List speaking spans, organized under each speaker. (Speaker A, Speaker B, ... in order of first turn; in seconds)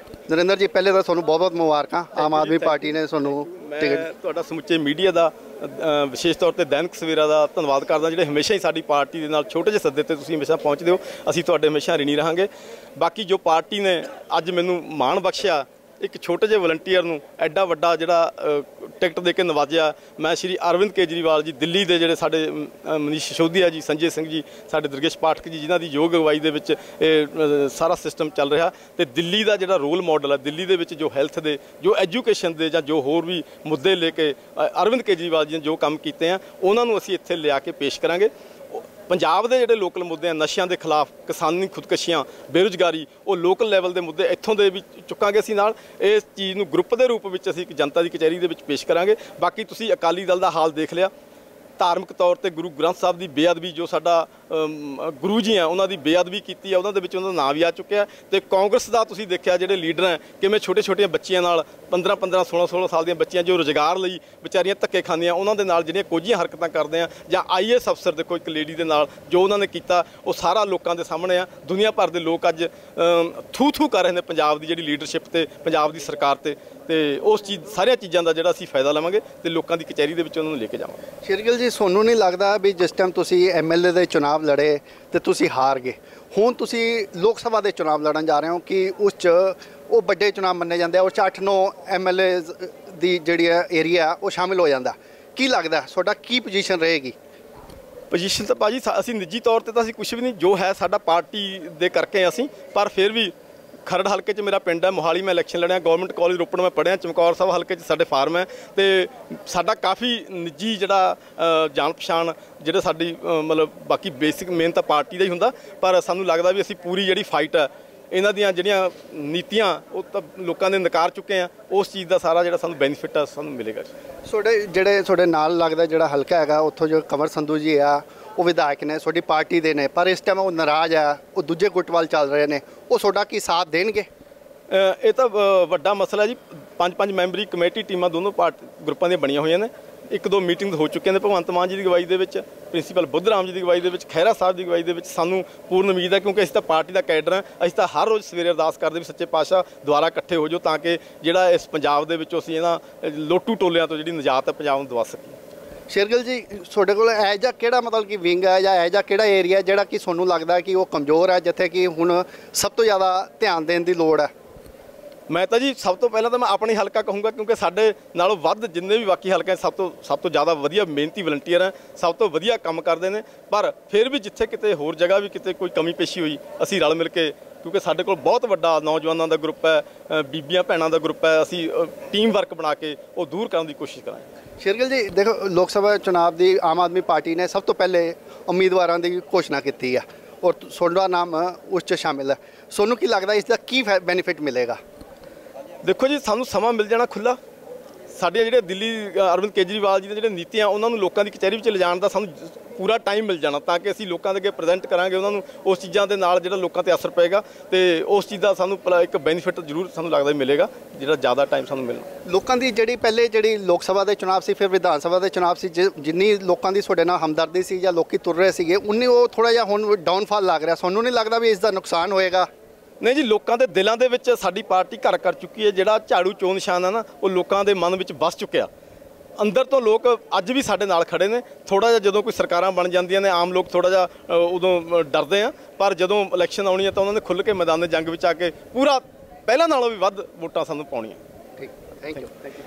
Speaker A: 0.3-4.1, 81.2-97.1, 124.3-134.1, 155.9-164.3, 184.6-194.8, 212.3-222.5, 241.6-242.3
Speaker B: 2.1-51.1, 51.8-81.0, 98.1-103.3, 103.8-123.9, 134.7-155.4, 165.3-184.3, 195.8-197.4, 198.1-212.1, 223.0-228.7, 229.4-241.2